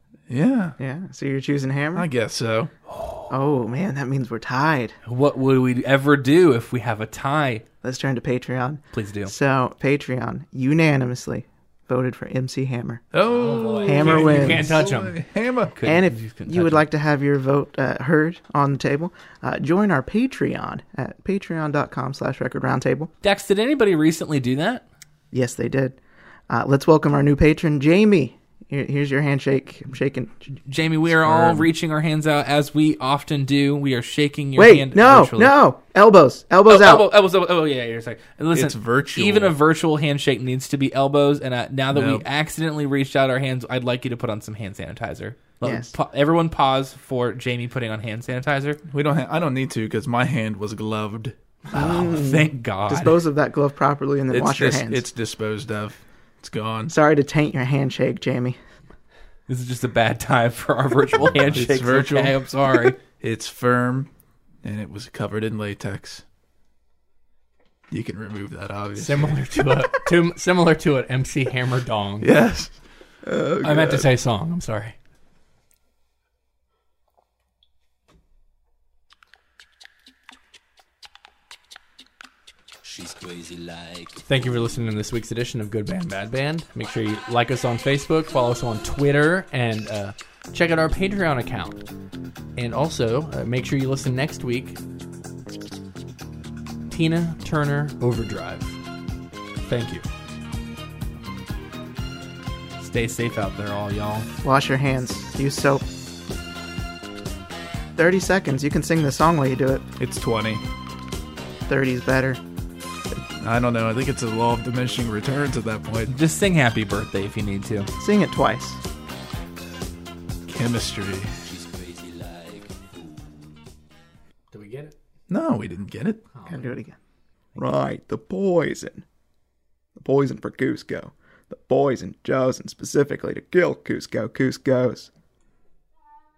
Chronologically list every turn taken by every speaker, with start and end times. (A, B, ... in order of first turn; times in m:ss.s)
0:00.3-0:00.8 A
0:00.8-0:02.1 B
0:01.9-0:02.7 A
0:03.3-0:05.0 B
0:05.0-0:07.6 C
0:07.8-0:13.0 B
0:08.9-0:09.3 C
0:13.1-0:15.7 A
0:13.2-0:15.2 D
0:13.8-0:14.7 B
0:15.7-0:16.8 C
0:15.8-0:23.1 B
0:23.2-0:24.8 C
0:25.3-0:26.0 B
0:26.5-0:30.4 B
0:30.7-0:35.5 C
0:31.1-0:31.7 A
0:34.6-0:37.0 B
0:36.7-0:48.8 C
0:38.5-0:39.6 A
0:41.9-0:42.2 A
0:45.6-0:45.9 B
0:48.9-0:51.3 A
0:51.7-0:53.2 C
0:51.7-0:55.0 B
0:54.3-0:56.9 A
0:56.9-0:58.6 B
0:59.5-1:03.0 C
1:01.1-1:04.1 A
1:04.6-1:06.2 A
1:07.9-1:09.7 A
1:09.0-1:12.3 D
1:12.2-1:12.7 A
1:13.3-1:13.6 B
1:13.6-1:14.9 D
1:22.8-1:24.2 E
1:24.2-1:31.8 D
1:32.6-1:34.8 D
1:36.9-1:38.8 D
1:39.6-1:40.1 D
1:42.8-1:44.3 C
1:44.4-1:45.8 B
1:48.0-1:49.8 B
1:50.0-1:50.6 A
1:51.7-1:52.4 B
1:53.2-1:56.1 A
1:56.1-1:57.9 C
1:58.0-1:58.8 B
2:00.5-2:01.4 A
2:01.4-2:03.6 E
2:04.5-2:05.0 D
2:05.3-2:06.2 A
2:06.3-2:06.8 D
2:06.5-2:07.0 B
2:07.6-2:09.0 B
2:10.0-2:15.1 B